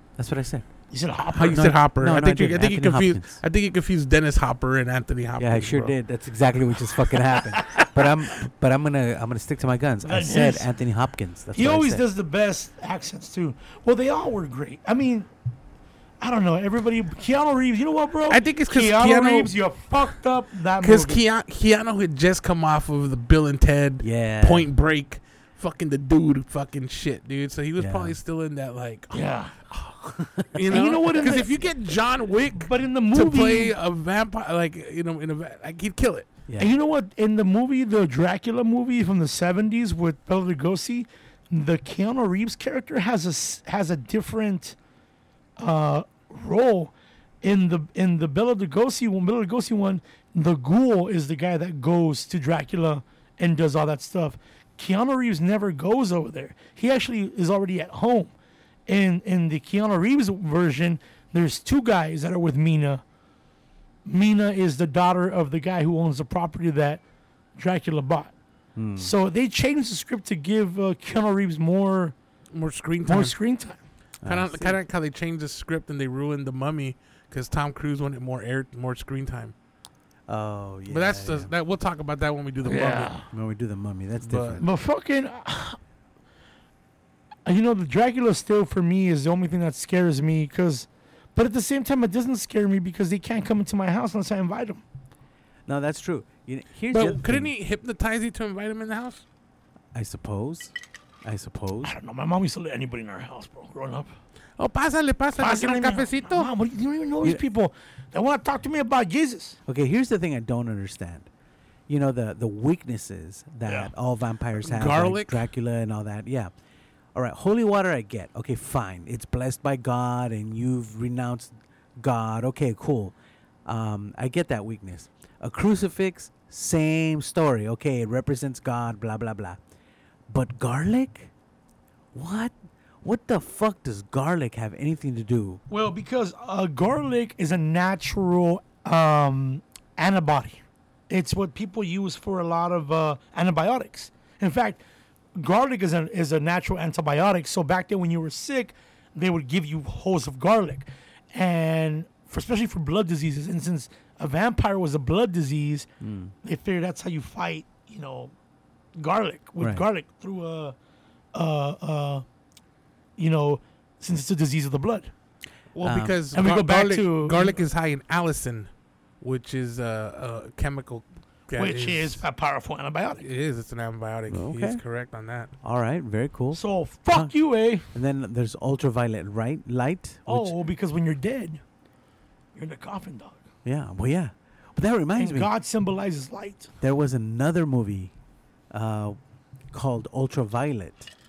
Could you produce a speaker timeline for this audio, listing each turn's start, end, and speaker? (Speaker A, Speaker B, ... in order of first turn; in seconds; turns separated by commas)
Speaker A: 0.2-0.7, Speaker B: 0.9-1.7, Speaker C: 1.3-5.9, Speaker A: 1.5-3.4, Speaker A: 5.4-12.0, Speaker B: 7.3-8.1, Speaker B: 10.0-10.7, Speaker B: 11.5-15.3, Speaker B: 16.2-21.2, Speaker C: 18.3-19.5, Speaker C: 20.8-29.2, Speaker A: 24.0-24.7, Speaker A: 27.8-28.2, Speaker B: 29.1-29.6, Speaker A: 30.2-30.5, Speaker C: 30.5-36.3, Speaker B: 30.7-31.6, Speaker B: 32.6-33.8, Speaker A: 36.5-36.7, Speaker B: 36.6-44.8, Speaker B: 45.6-58.3, Speaker B: 58.9-63.0, Speaker B: 64.0-67.0, Speaker B: 67.5-68.3, Speaker A: 68.8-69.1, Speaker B: 69.0-72.2, Speaker C: 72.5-73.3, Speaker B: 73.0-73.8, Speaker A: 74.2-74.8, Speaker C: 74.2-79.5, Speaker A: 80.3-81.5, Speaker C: 80.9-83.2, Speaker B: 82.6-83.3, Speaker A: 83.3-84.7, Speaker C: 84.2-84.6, Speaker B: 84.6-85.8, Speaker B: 87.5-94.8, Speaker A: 95.7-97.5, Speaker C: 96.9-99.2, Speaker A: 99.9-100.7, Speaker A: 101.2-101.9, Speaker B: 101.8-104.1, Speaker C: 104.6-106.5, Speaker B: 105.4-109.6, Speaker A: 109.7-111.3, Speaker A: 111.9-116.5, Speaker B: 113.7-113.9, Speaker C: 114.6-115.4, Speaker A: 117.1-123.1, Speaker A: 123.7-129.6, Speaker A: 130.3-131.3, Speaker A: 132.1-135.6, Speaker B: 135.7-144.8, Speaker B: 145.4-155.9, Speaker A: 156.0-156.3, Speaker B: 156.4-158.3, Speaker B: 158.9-160.8, Speaker A: 159.6-159.8, Speaker B: 161.3-162.2, Speaker B: 163.2-165.1, Speaker C: 165.7-168.7, Speaker A: 165.8-166.2, Speaker B: 166.3-167.5, Speaker C: 169.2-172.2, Speaker B: 171.6-173.3, Speaker C: 173.2-175.5, Speaker A: 174.3-174.8, Speaker A: 175.6-177.3, Speaker B: 176.5-177.8, Speaker A: 177.9-180.5, Speaker B: 180.2-181.6, Speaker B: 182.5-183.4, Speaker A: 183.6-185.5, Speaker B: 185.2-186.7, Speaker A: 186.8-188.1, Speaker A: 188.7-189.2, Speaker A: 189.7-191.1